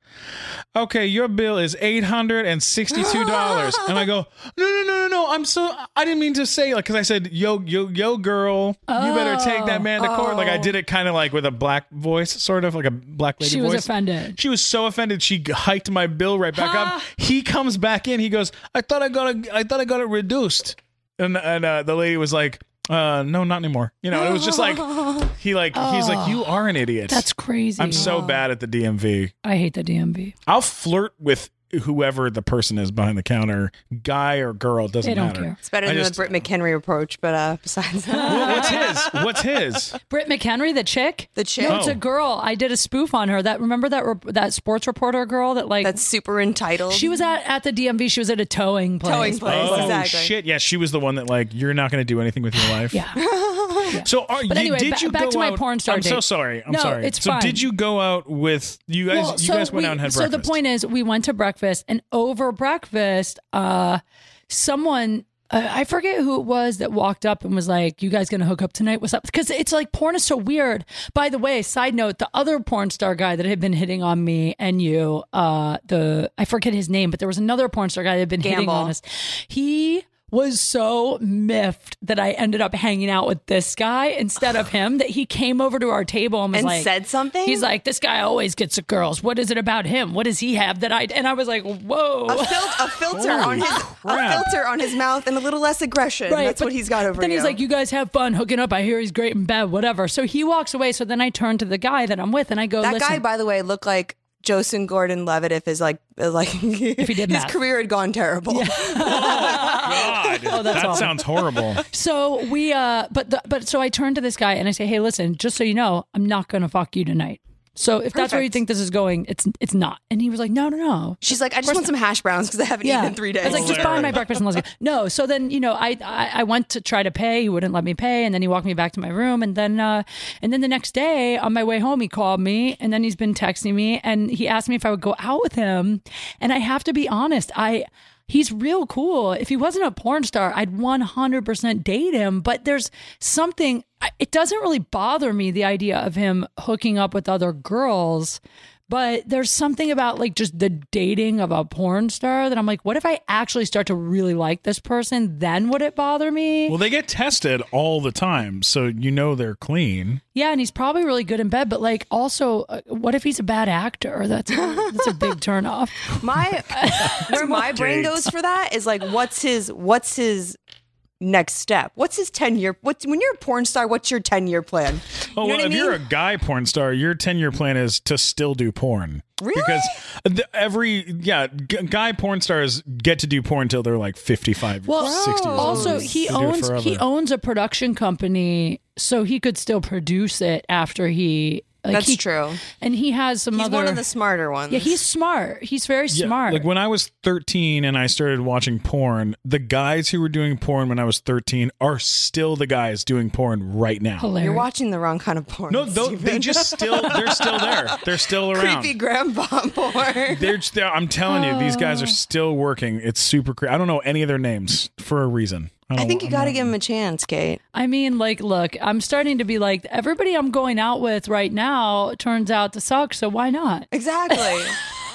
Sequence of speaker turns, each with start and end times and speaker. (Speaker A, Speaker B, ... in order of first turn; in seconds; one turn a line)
Speaker A: 0.7-27.2
Speaker B: 3.1-3.9
Speaker C: 8.9-10.3
Speaker C: 13.4-14.4
Speaker C: 16.5-17.1
Speaker B: 24.2-25.2
Speaker C: 25.7-26.5
Speaker C: 27.1-28.2
Speaker A: 27.8-29.3
Speaker B: 27.9-28.4
Speaker C: 29.4-30.3
Speaker A: 30.4-36.4
Speaker C: 35.0-35.6
Speaker B: 35.6-39.2
Speaker C: 38.1-38.9
Speaker A: 38.2-40.0
Speaker C: 40.1-46.0
Speaker B: 41.4-41.9
Speaker A: 41.6-42.0
Speaker B: 45.8-47.2
Speaker C: 46.9-50.0
Speaker B: 49.0-50.3
Speaker A: 49.5-53.0
Speaker C: 52.9-53.2
Speaker B: 53.1-54.0
Speaker C: 53.9-57.6
Speaker A: 54.0-60.5
Speaker C: 59.1-86.9
Speaker B: 78.4-78.9
Speaker B: 86.5-87.7
Speaker C: 87.4-92.7
Speaker B: 92.3-97.6
Speaker A: 93.1-94.5
Speaker C: 96.3-103.2
Speaker B: 102.8-109.9
Speaker C: 107.0-107.5
Speaker C: 108.5-111.2
Speaker A: 109.0-111.8
Speaker C: 111.9-121.9
Speaker B: 118.1-118.5
Speaker B: 121.2-124.2
Speaker C: 122.8-156.8
Speaker A: 123.4-124.2
Speaker A: 156.7-160.2
Speaker C: 160.3-166.2
Speaker B: 164.6-165.1
Speaker B: 166.1-170.6
Speaker C: 166.7-167.6
Speaker A: 167.1-168.3
Speaker B: 171.2-176.0
Speaker A: 175.3-187.0
Speaker B: 179.4-179.9
Speaker C: 184.9-194.0
Speaker B: 185.0-186.1
Speaker B: 191.9-192.6
Speaker B: 193.5-195.0
Speaker C: 194.7-196.7
Speaker A: 196.1-204.3
Speaker C: 204.2-204.7
Speaker B: 204.4-210.5
Speaker A: 205.7-208.9
Speaker A: 210.3-216.7
Speaker C: 211.3-212.2
Speaker B: 215.9-217.6
Speaker C: 217.7-224.7
Speaker B: 223.9-224.8